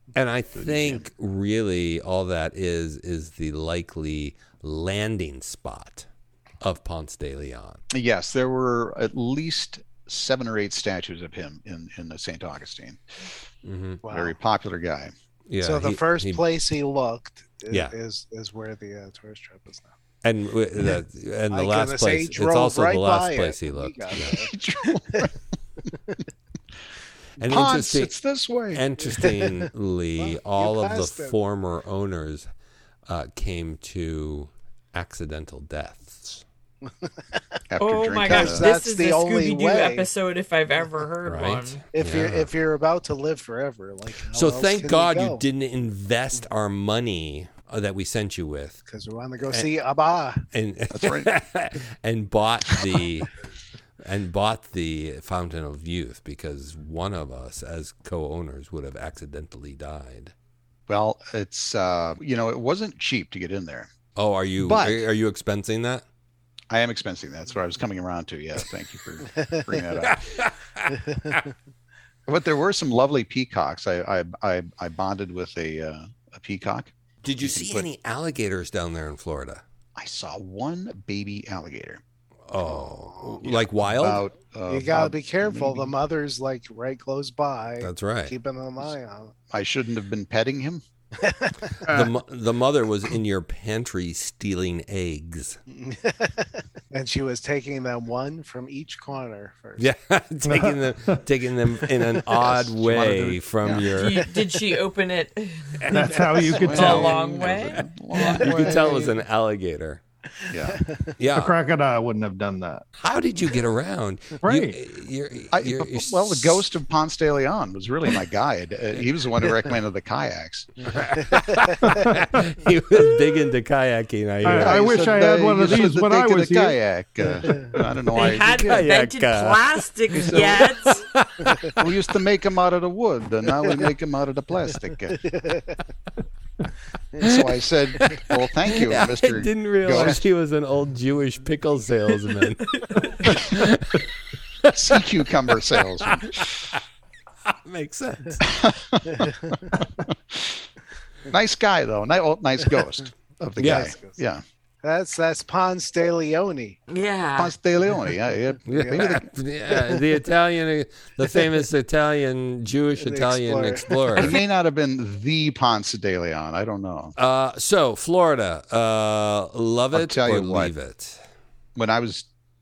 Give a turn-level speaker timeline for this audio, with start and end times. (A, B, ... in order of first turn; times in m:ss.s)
0:00.1-0:06.1 A
0:00.6-0:01.0 B
0:06.6-0:07.8 A
0:07.9-0:13.0 B
0:13.6-0:14.0 A
0:14.0-0:14.4 C
0:14.0-0:15.1 B
0:15.5-0:16.4 A
0:15.6-0:19.9 C
0:17.7-0:17.9 A
0:20.2-0:24.5 A
0:21.5-0:25.3 C
0:24.4-0:25.3 B
0:27.4-0:28.1 A
0:27.4-0:28.8 B
0:28.7-0:32.4 A
0:29.2-0:31.3 C
0:33.1-0:36.4 A
0:37.7-0:38.7 B
0:37.8-0:41.8 D
0:38.3-0:40.1 C
0:41.2-0:42.5 A
0:41.9-0:45.4 C
0:44.3-0:48.8 A
0:48.8-0:50.4 C
0:50.5-0:53.3 A
0:50.9-0:51.3 B
0:54.0-1:00.3 A
1:00.9-1:03.9 B
1:04.2-1:06.0 A
1:04.6-1:05.0 B
1:06.7-1:10.2 B
1:10.0-1:11.4 A
1:10.9-1:11.5 C
1:12.3-1:17.9 B
1:17.2-1:19.6 A
1:20.0-1:22.0 B
1:22.5-1:24.2 A
1:23.4-1:25.9 B
1:24.7-1:29.3 C
1:27.8-1:28.3 A
1:29.5-1:30.8 B
1:31.2-1:31.9 C
1:31.8-1:35.6 A
1:35.7-1:39.8 C
1:39.8-1:44.4 A
1:40.4-1:41.2 E
1:41.9-1:43.3 E
1:42.4-1:43.8 B
1:43.9-1:48.6 D
1:45.8-1:50.0 A
1:45.9-1:47.2 E
1:46.5-1:48.8 B
1:48.5-1:49.1 C
1:50.5-1:50.8 B
1:50.7-1:51.1 C
1:51.2-1:51.5 A
1:51.3-1:52.8 E
1:53.0-1:56.6 A
1:54.4-1:54.8 E
1:55.5-2:00.7 B
2:00.9-2:04.9 A
2:01.1-2:02.0 C
2:01.8-2:02.4 E
2:04.4-2:06.8 E
2:04.5-2:08.6 B
2:07.4-2:07.7 C
2:08.1-2:11.0 D
2:08.2-2:11.8 A
2:11.8-2:15.2 B
2:15.1-2:15.8 C
2:17.2-2:20.2 B
2:17.2-2:24.1 A
2:22.6-2:23.4 D
2:24.6-2:25.0 A
2:24.7-2:26.4 B
2:25.7-2:26.8 A
2:27.4-2:28.5 A
2:28.4-2:29.5 B
2:29.2-2:29.6 C
2:30.1-2:30.6 B
2:31.3-2:34.4 B
2:33.6-2:33.9 A
2:33.6-2:34.2 C
2:34.8-2:36.8 C
2:36.9-2:37.5 D
2:37.4-2:39.3 B
2:38.7-2:44.4 A
2:38.7-2:39.0 C
2:39.7-2:40.0 C
2:43.0-2:44.0 C
2:44.2-2:47.1 B
2:47.2-2:51.2 A
2:49.9-2:50.7 B
2:51.8-2:52.3 B